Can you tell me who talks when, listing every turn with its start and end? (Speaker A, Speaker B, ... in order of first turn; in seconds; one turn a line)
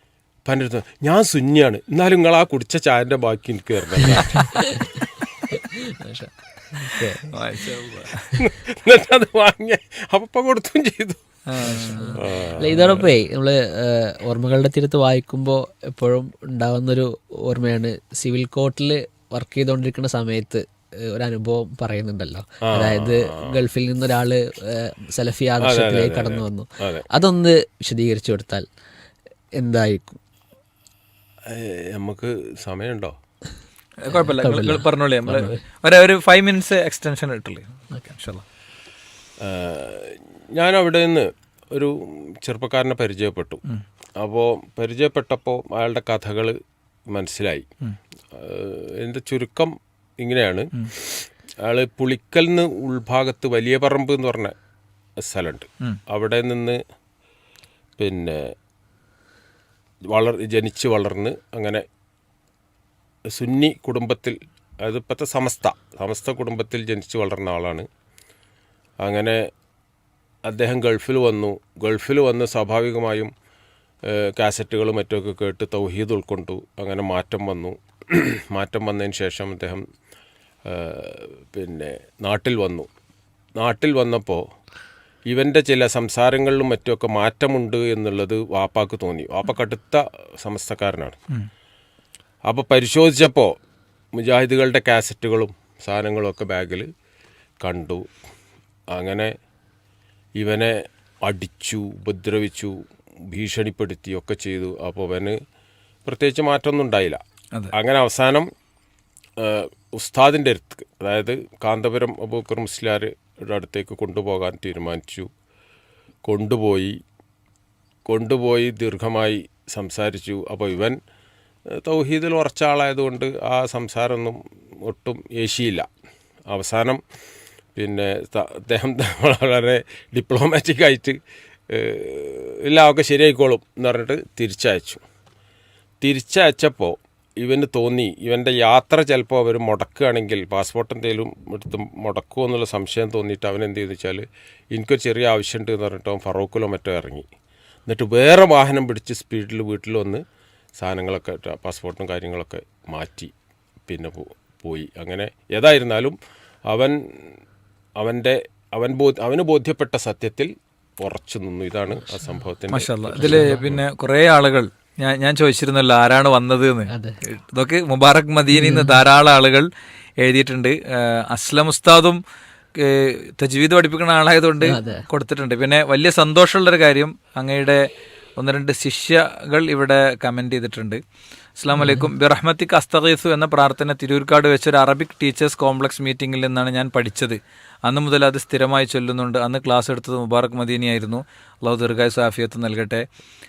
Speaker A: 0.4-5.5
Speaker B: 4.4-4.8
Speaker B: 5.5-7.4
Speaker C: 7.2-8.4
Speaker A: 8.4-13.1
Speaker C: 11.5-12.2
Speaker B: 11.7-28.6
Speaker A: 22.6-23.6
Speaker A: 25.6-27.1
Speaker B: 29.6-30.2
Speaker A: 31.4-33.1
Speaker C: 34.0-38.4
Speaker B: 34.1-35.6
Speaker A: 39.4-43.6
Speaker A: 44.2-47.7
Speaker A: 48.3-54.5
Speaker A: 55.2-56.8
Speaker A: 58.0-58.5
Speaker A: 60.1-61.8
Speaker A: 63.3-67.9
Speaker A: 69.0-69.4
Speaker A: 70.5-73.3
Speaker A: 74.0-79.8
Speaker A: 80.6-82.9
Speaker A: 83.6-84.4
Speaker A: 85.3-91.2
Speaker A: 92.5-93.5
Speaker A: 94.1-96.9
Speaker A: 97.6-98.1
Speaker A: 98.9-99.3
Speaker A: 100.4-102.8
Speaker A: 103.3-105.4
Speaker A: 106.0-107.2
Speaker A: 107.7-108.5
Speaker A: 109.4-115.3
Speaker A: 116.2-117.0
Speaker A: 118.1-121.0
Speaker A: 121.7-125.9
Speaker A: 126.5-127.0
Speaker A: 127.7-131.2
Speaker A: 131.7-135.0
Speaker A: 136.0-147.2
Speaker A: 147.9-150.2
Speaker A: 150.8-153.3
Speaker A: 153.9-156.2
Speaker A: 156.7-157.2
Speaker A: 158.0-163.8
Speaker B: 162.1-162.3
Speaker C: 162.7-169.7
Speaker B: 163.2-163.6
Speaker B: 166.9-167.2
Speaker B: 168.5-169.0
Speaker C: 170.2-172.2
Speaker C: 172.8-177.9
Speaker B: 174.6-175.1
Speaker C: 178.4-181.0
Speaker C: 181.6-193.1
Speaker B: 181.7-182.1